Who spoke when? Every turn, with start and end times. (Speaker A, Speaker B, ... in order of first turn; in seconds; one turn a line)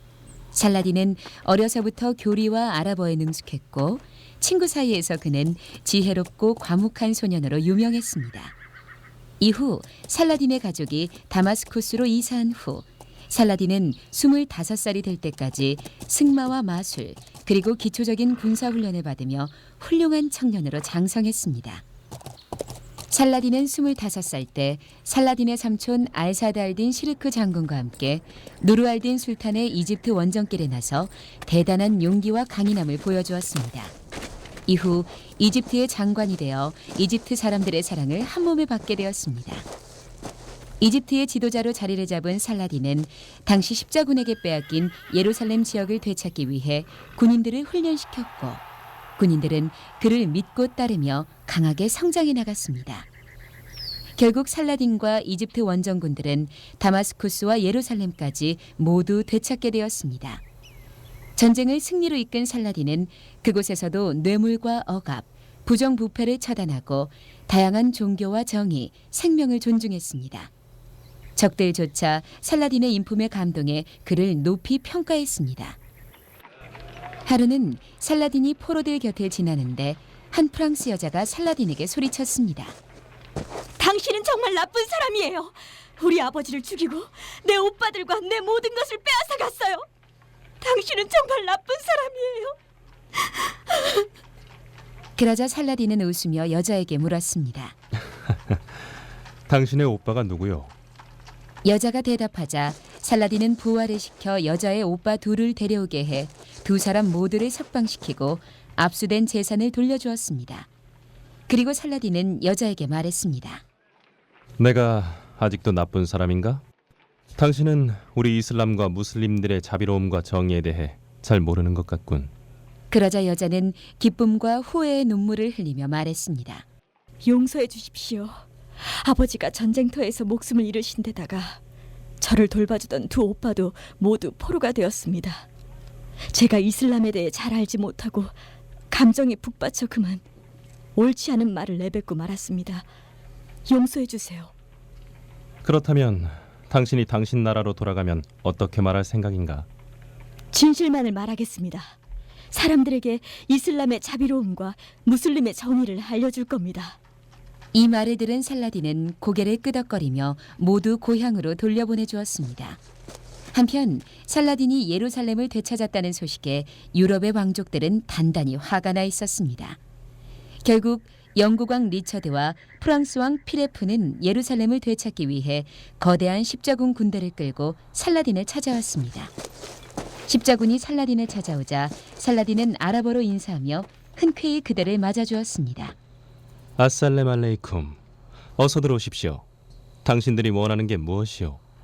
Speaker A: 0.5-8.5
Speaker A: 9.4-21.8
Speaker A: 23.1-33.9
Speaker A: 34.7-39.7
Speaker A: 40.8-48.6
Speaker A: 49.2-53.1
Speaker A: 54.2-60.4
Speaker A: 61.4-70.5
Speaker A: 71.4-75.8
Speaker A: 77.3-82.8
Speaker B: 83.8-89.8
Speaker B: 90.6-92.6
Speaker B: 93.7-94.0
Speaker A: 95.2-97.8
Speaker C: 99.5-100.7
Speaker A: 101.6-110.7
Speaker A: 111.5-113.6
Speaker C: 114.6-116.6
Speaker C: 117.4-122.3
Speaker A: 122.9-126.7
Speaker B: 127.2-131.6
Speaker B: 132.2-135.5
Speaker B: 136.3-138.4
Speaker B: 138.9-140.2
Speaker B: 141.0-142.9
Speaker B: 143.7-144.5
Speaker C: 145.6-149.7
Speaker B: 150.5-151.9
Speaker B: 152.5-157.0
Speaker A: 157.7-162.8
Speaker A: 163.5-169.8
Speaker A: 170.6-179.3
Speaker A: 180.3-186.0
Speaker C: 186.8-188.0
Speaker C: 188.6-189.4
Speaker C: 190.1-191.6